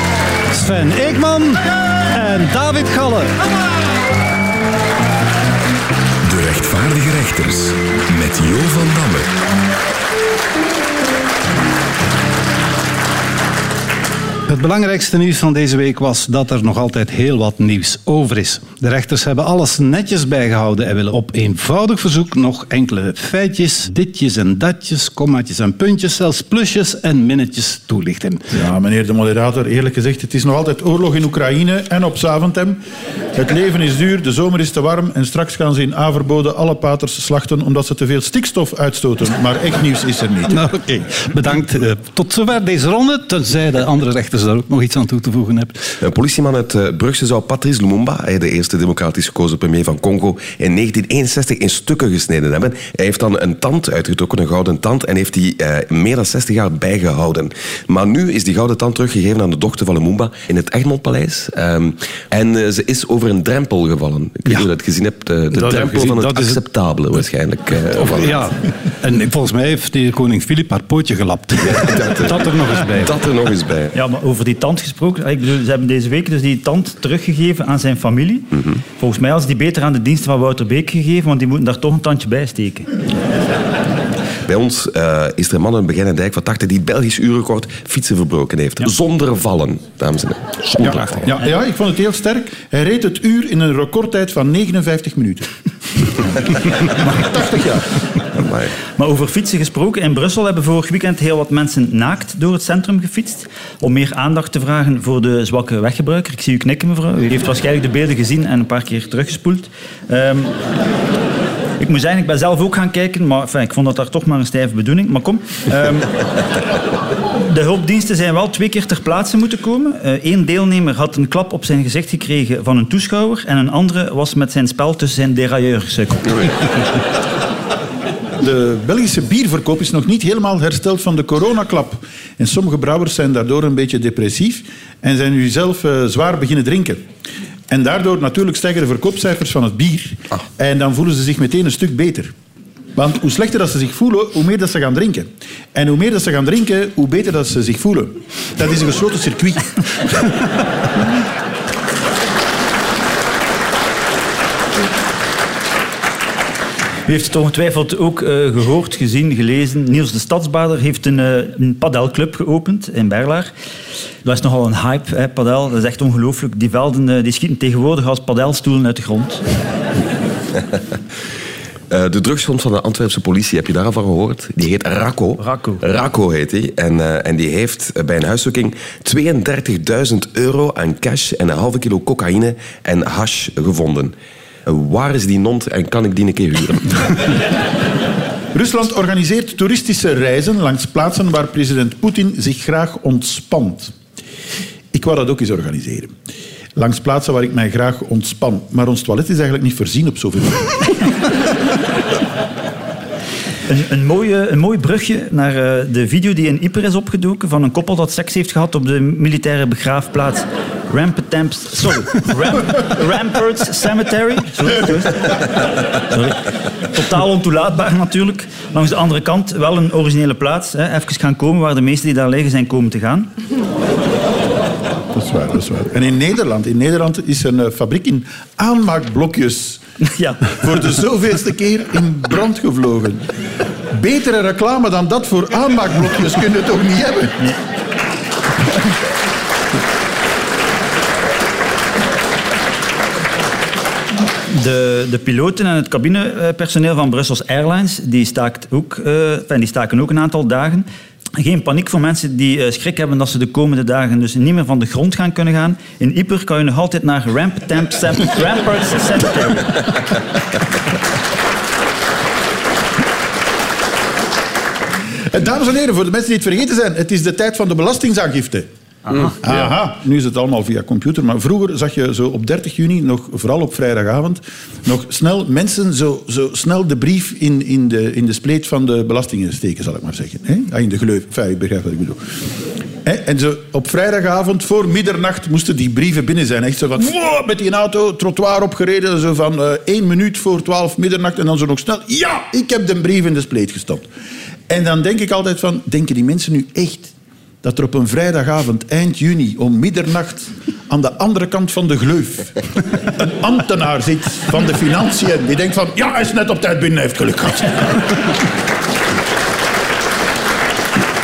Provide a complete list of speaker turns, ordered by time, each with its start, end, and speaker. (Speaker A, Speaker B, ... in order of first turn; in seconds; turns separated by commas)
Speaker A: 0.5-3.3, Speaker B: 6.2-9.3, Speaker A: 14.5-28.5, Speaker C: 28.5-32.8, Speaker C: 33.3-40.6, Speaker A: 40.5-45.9, Speaker D: 46.0-68.4, Speaker A: 65.5-66.6, Speaker A: 68.0-73.1, Speaker D: 71.6-73.9, Speaker E: 73.9-82.9, Speaker D: 78.5-78.8, Speaker D: 84.5-91.3, Speaker C: 90.8-95.5, Speaker C: 96.9-97.9, Speaker D: 98.3-98.8, Speaker E: 99.0-110.5, Speaker E: 111.8-116.2, Speaker E: 117.4-126.6, Speaker C: 128.4-137.1, Speaker C: 137.7-142.3, Speaker C: 142.9-150.4, Speaker E: 157.1-163.5, Speaker E: 164.2-169.4, Speaker D: 171.9-184.1, Speaker E: 175.4-175.8, Speaker D: 184.7-187.2, Speaker C: 188.5-193.9, Speaker C: 194.9-196.2, Speaker C: 196.8-200.9, Speaker E: 203.7-215.6, Speaker E: 216.1-223.3, Speaker C: 225.1-229.8, Speaker E: 230.1-230.6, Speaker C: 230.6-233.2, Speaker C: 233.9-237.4, Speaker E: 244.5-250.8, Speaker E: 251.4-259.9, Speaker C: 265.3-268.7, Speaker C: 269.3-282.3, Speaker C: 283.0-294.1, Speaker C: 294.7-308.1